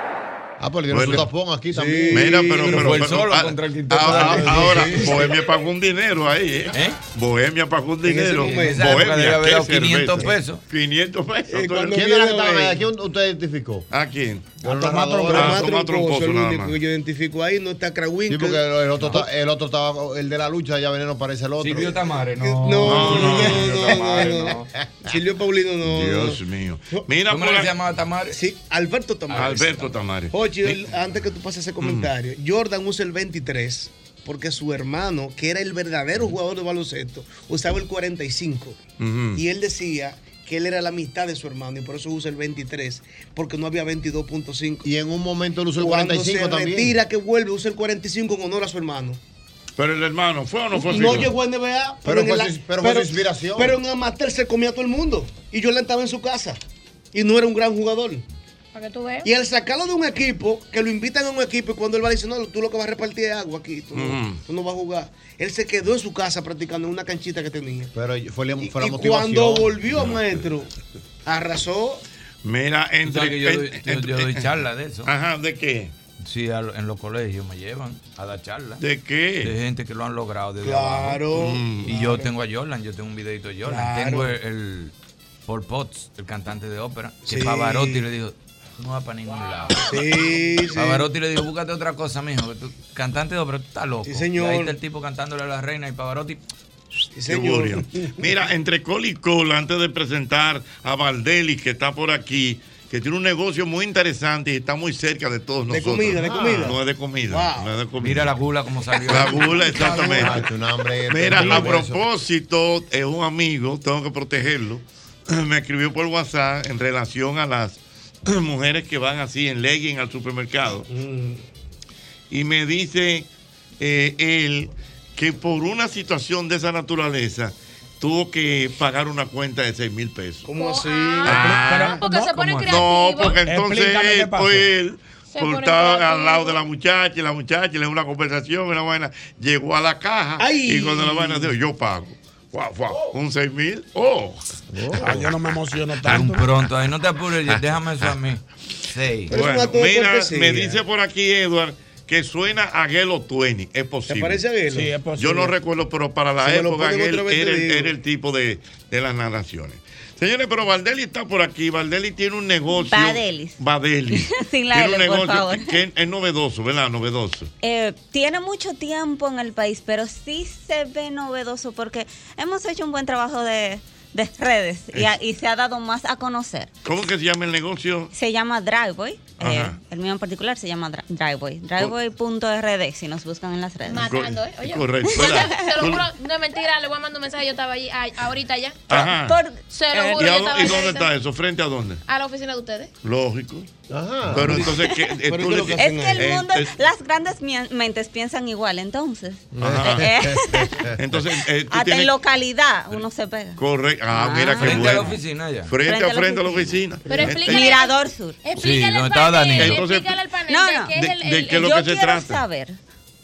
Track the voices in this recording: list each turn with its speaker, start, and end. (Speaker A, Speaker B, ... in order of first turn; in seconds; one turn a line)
Speaker A: 0.6-2.5
Speaker B: 0.9-1.3
Speaker C: 1.7-3.0
Speaker B: 2.1-12.1
Speaker D: 2.7-5.1
Speaker A: 4.6-5.1
Speaker D: 6.7-7.0
Speaker C: 8.0-9.1
Speaker D: 8.4-10.6
Speaker C: 11.5-12.8
Speaker A: 11.8-13.9
Speaker B: 13.9-14.6
Speaker A: 14.6-15.7
Speaker C: 14.7-19.2
Speaker E: 14.8-15.1
Speaker B: 15.3-16.8
Speaker A: 18.3-22.0
Speaker D: 21.6-24.7
Speaker C: 22.4-26.4
Speaker B: 22.8-24.4
Speaker B: 25.9-27.8
Speaker D: 27.3-28.4
Speaker C: 28.3-38.8
Speaker D: 29.3-29.9
Speaker B: 29.3-30.8
Speaker B: 31.8-32.1
Speaker B: 39.0-39.4
Speaker C: 39.4-44.9
Speaker A: 44.8-47.0
Speaker C: 45.8-49.2
Speaker B: 49.8-51.3
Speaker C: 50.8-56.6
Speaker A: 52.0-53.8
Speaker C: 57.1-58.2
Speaker F: 58.7-59.3
Speaker C: 59.2-67.9
Speaker B: 63.9-64.4
Speaker A: 67.9-70.2
Speaker C: 68.6-70.7
Speaker C: 71.3-72.0
Speaker B: 72.4-74.5
Speaker D: 73.0-75.1
Speaker B: 75.1-75.9
Speaker D: 76.2-78.8
Speaker B: 78.8-79.5
Speaker D: 79.4-81.3
Speaker C: 80.6-82.3
Speaker B: 81.3-81.9
Speaker D: 81.8-84.9
Speaker C: 83.7-84.3
Speaker D: 85.5-90.0
Speaker C: 87.2-88.0
Speaker C: 89.9-91.1
Speaker D: 90.8-96.4
Speaker C: 94.0-94.8
Speaker C: 97.1-98.1
Speaker B: 97.3-108.3
Speaker C: 105.7-106.8
Speaker A: 106.2-106.8
Speaker C: 107.3-107.7
Speaker D: 108.0-109.7
Speaker B: 109.1-110.4
Speaker A: 109.7-112.0
Speaker B: 111.1-120.9
Speaker C: 120.9-121.4
Speaker B: 122.3-123.3
Speaker B: 123.8-130.5
Speaker C: 130.5-132.0
Speaker F: 130.6-131.4
Speaker B: 131.3-132.0
Speaker E: 131.3-132.4
Speaker F: 132.0-133.4
Speaker D: 132.3-132.7
Speaker B: 132.7-144.4
Speaker E: 133.4-134.7
Speaker F: 135.3-136.6
Speaker C: 140.4-141.5
Speaker A: 144.7-145.2
Speaker E: 145.0-146.5
Speaker D: 146.1-149.3
Speaker B: 147.5-148.2
Speaker C: 149.3-150.8
Speaker B: 149.3-154.4
Speaker C: 154.1-154.9
Speaker E: 154.7-155.5
Speaker B: 155.2-167.5
Speaker C: 156.4-157.9
Speaker G: 162.7-163.6
Speaker G: 164.1-165.8
Speaker G: 167.6-176.7
Speaker B: 176.8-178.1
Speaker G: 178.1-184.1
Speaker B: 179.4-179.8
Speaker F: 183.9-188.8
Speaker B: 184.0-186.1
Speaker B: 188.9-189.4
Speaker G: 188.9-189.6
Speaker F: 189.7-191.1
Speaker B: 189.9-192.0
Speaker F: 192.1-192.9
Speaker B: 193.0-193.7
Speaker A: 193.9-194.7
Speaker B: 194.3-196.8
Speaker C: 194.3-194.8
Speaker C: 195.3-196.3
Speaker G: 195.8-200.8
Speaker A: 199.6-200.9
Speaker B: 199.6-200.3
Speaker B: 201.0-202.2
Speaker G: 201.7-205.1
Speaker B: 203.6-207.8
Speaker D: 204.6-205.7
Speaker G: 205.8-206.7
Speaker F: 207.1-211.6
Speaker G: 207.3-208.4
Speaker D: 208.6-209.9
Speaker B: 209.6-210.1
Speaker G: 210.5-210.9
Speaker B: 210.9-212.4
Speaker G: 211.5-212.8